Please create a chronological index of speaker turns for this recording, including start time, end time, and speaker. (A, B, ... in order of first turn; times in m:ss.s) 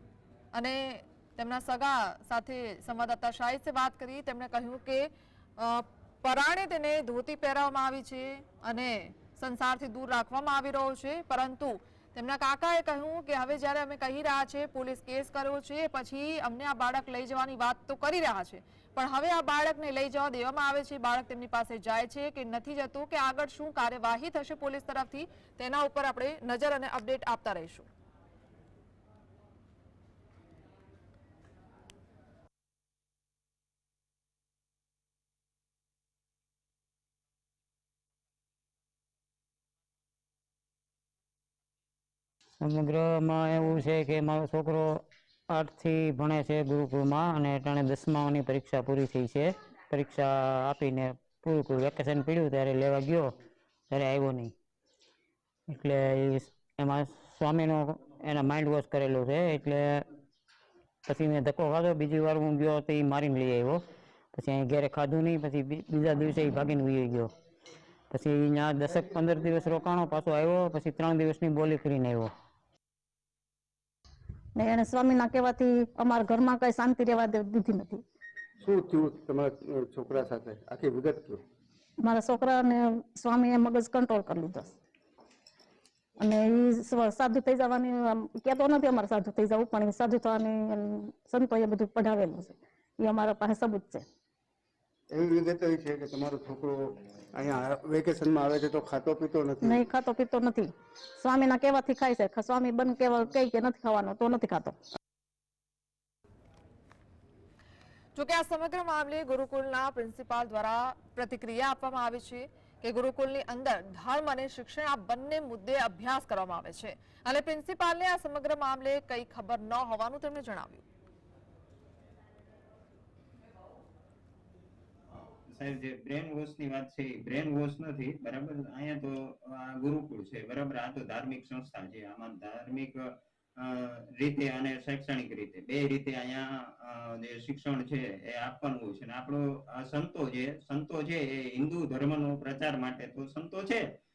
0:00.5-0:27.9 A
0:42.6-0:53.3 B
0:53.9-0:54.5 B
0:55.7-1:00.0 B
1:01.0-1:03.8 B
1:04.3-1:07.3 B
1:08.1-1:12.3 B
1:14.6-1:18.0 C
1:18.6-1:21.4 D
1:22.0-1:24.7 C
1:26.2-1:34.0 C
1:35.1-1:39.7 D
1:39.6-1:44.7 C
1:48.1-2:00.8 A
2:05.5-2:23.9 E